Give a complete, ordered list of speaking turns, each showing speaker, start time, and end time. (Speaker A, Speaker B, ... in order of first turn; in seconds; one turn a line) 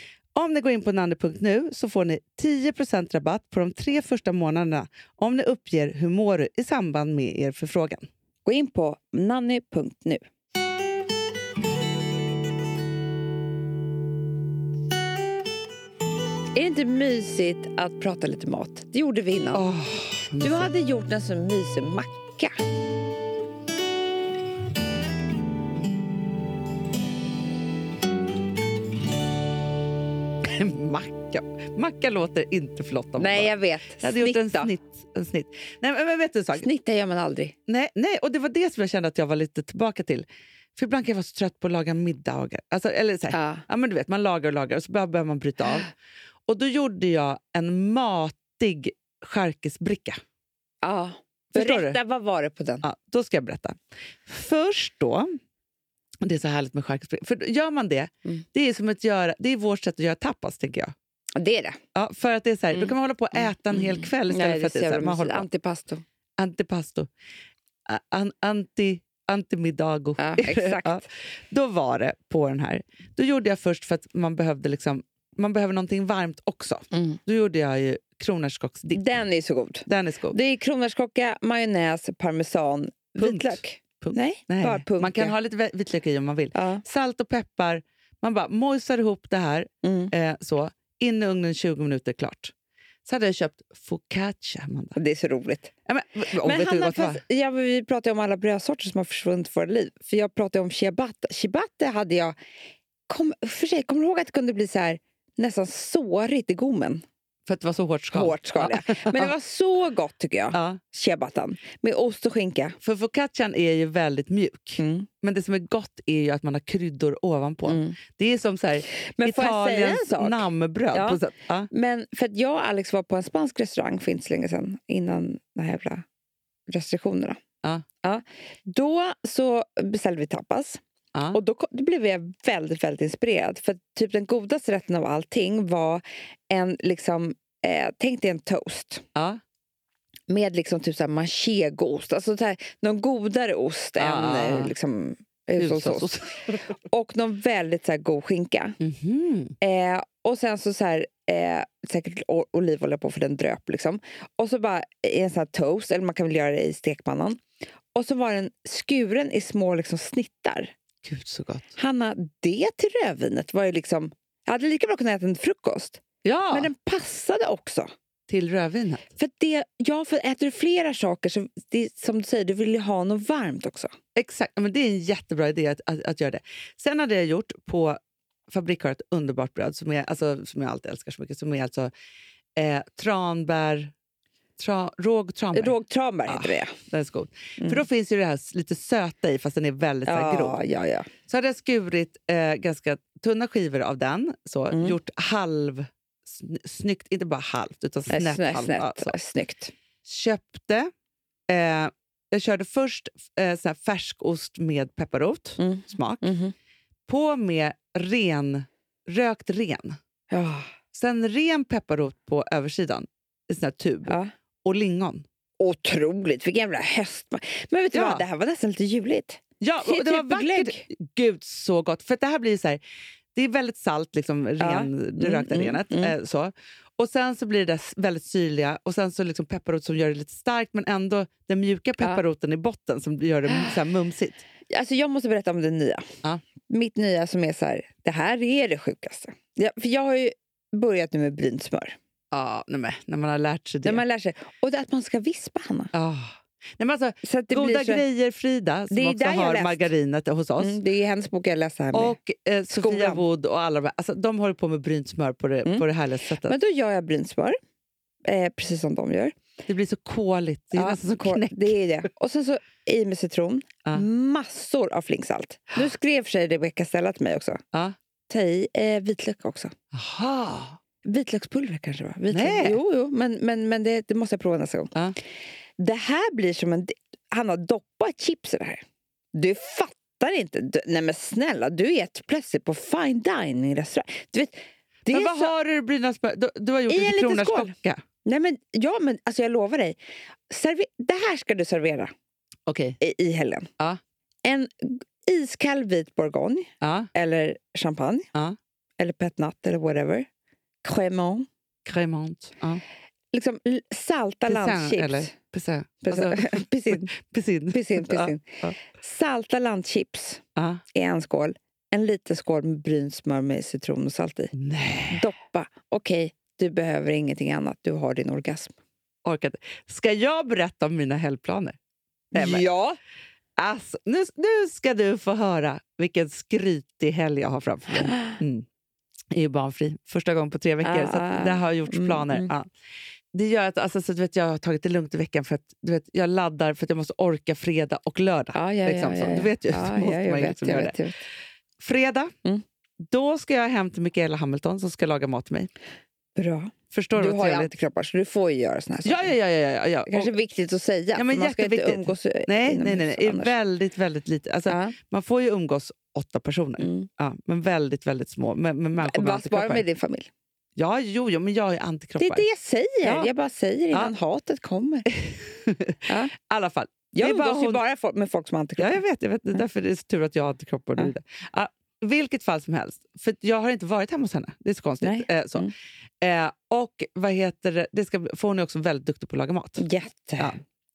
Speaker A: 0.3-8.1
Speaker B: 8.4-10.2
Speaker B: 16.5-19.7
Speaker A: 19.5-20.7
Speaker B: 20.4-22.5
Speaker A: 30.4-36.6
Speaker B: 33.2-34.7
Speaker B: 36.5-37.5
Speaker A: 37.7-45.9
Speaker B: 43.3-43.6
Speaker A: 46.5-50.2
Speaker B: 50.8-52.8
Speaker A: 51.5-52.0
Speaker A: 52.8-55.4
Speaker A: 56.2-60.9
Speaker B: 61.4-61.8
Speaker A: 61.9-65.5
Speaker B: 63.5-66.0
Speaker A: 66.4-67.1
Speaker A: 67.9-79.0
Speaker B: 70.2-71.0
Speaker B: 78.9-85.3
Speaker A: 79.9-80.3
Speaker A: 83.2-92.5
Speaker B: 86.5-86.8
Speaker B: 89.8-90.1
Speaker A: 93.0-95.0
Speaker B: 95.0-95.7
Speaker A: 95.9-97.2
Speaker B: 96.4-102.3
Speaker B: 103.1-107.0
Speaker A: 107.5-109.3
Speaker B: 108.1-112.8
Speaker A: 110.5-110.8
Speaker A: 112.8-121.7
Speaker B: 114.8-115.1
Speaker B: 117.7-118.0
Speaker B: 119.1-126.0
Speaker B: 126.7-127.4
Speaker B: 128.0-130.8
Speaker B: 131.3-139.0
Speaker B: 140.3-146.2
Speaker A: 144.0-144.7
Speaker A: 145.6-146.6
Speaker B: 146.8-148.8
Speaker A: 148.8-149.5
Speaker B: 149.6-157.4
Speaker B: 157.9-160.7
Speaker A: 161.0-161.7
Speaker B: 161.8-167.9
Speaker A: 166.2-166.7
Speaker A: 168.3-169.1
Speaker B: 169.2-173.9
Speaker A: 174.2-181.9
Speaker A: 182.6-183.9
Speaker A: 184.6-185.7
Speaker B: 185.5-186.7
Speaker A: 186.3-190.6
Speaker B: 190.1-191.1
Speaker A: 191.3-199.1
Speaker B: 194.7-195.0
Speaker B: 198.1-199.7
Speaker A: 200.0-200.9
Speaker A: 201.5-206.3
Speaker B: 205.6-206.5
Speaker A: 207.1-210.0
Speaker B: 210.3-210.7
Speaker A: 210.9-215.2
Speaker B: 215.6-220.8
Speaker A: 217.9-218.2
Speaker A: 219.6-222.8
Speaker A: 223.3-234.4
Speaker B: 224.6-226.1
Speaker B: 234.7-236.1
Speaker B: 236.7-241.9
Speaker A: 242.3-244.0
Speaker B: 243.8-245.9
Speaker A: 245.9-250.8
Speaker B: 247.2-248.0
Speaker B: 248.9-249.9
Speaker B: 250.6-252.2
Speaker A: 251.9-256.5
Speaker B: 252.7-253.2
Speaker B: 256.4-257.6
Speaker B: 258.3-259.3
Speaker A: 259.7-261.8
Speaker B: 260.7-267.6
Speaker B: 268.3-269.7
Speaker A: 269.9-270.8
Speaker B: 271.0-274.9
Speaker A: 272.3-272.8
Speaker B: 275.8-278.8
Speaker B: 279.3-285.5
Speaker A: 285.1-288.0
Speaker B: 286.9-287.7
Speaker B: 288.2-290.0
Speaker B: 290.5-292.1
Speaker A: 292.7-293.0
Speaker B: 293.0-293.7
Speaker B: 294.4-298.3
Speaker A: 296.8-297.1
Speaker B: 299.0-300.2
Speaker B: 300.8-301.4
Speaker A: 301.9-302.8
Speaker B: 303.3-305.3
Speaker A: 304.5-308.8
Speaker B: 306.0-307.1
Speaker B: 307.7-314.5
Speaker A: 310.6-310.8
Speaker A: 314.5-315.2
Speaker B: 315.1-318.7
Speaker A: 319.2-321.8
Speaker B: 322.3-323.0
Speaker A: 322.3-322.6
Speaker A: 323.6-328.6
Speaker A: 329.3-332.7
Speaker B: 330.8-332.5
Speaker A: 333.3-340.9
Speaker B: 338.5-341.2
Speaker A: 341.8-342.3
Speaker A: 343.1-345.7
Speaker B: 346.4-349.3
Speaker A: 346.9-347.7
Speaker A: 349.0-350.3
Speaker B: 350.1-353.5
Speaker A: 351.1-359.8
Speaker B: 354.7-354.9
Speaker B: 356.8-357.1
Speaker B: 359.0-360.3
Speaker A: 360.8-362.4
Speaker B: 362.2-365.1
Speaker A: 363.0-363.3
Speaker A: 365.1-367.8
Speaker B: 366.1-366.3
Speaker B: 367.1-369.0
Speaker A: 368.8-379.8
Speaker B: 375.0-375.7
Speaker B: 379.8-380.5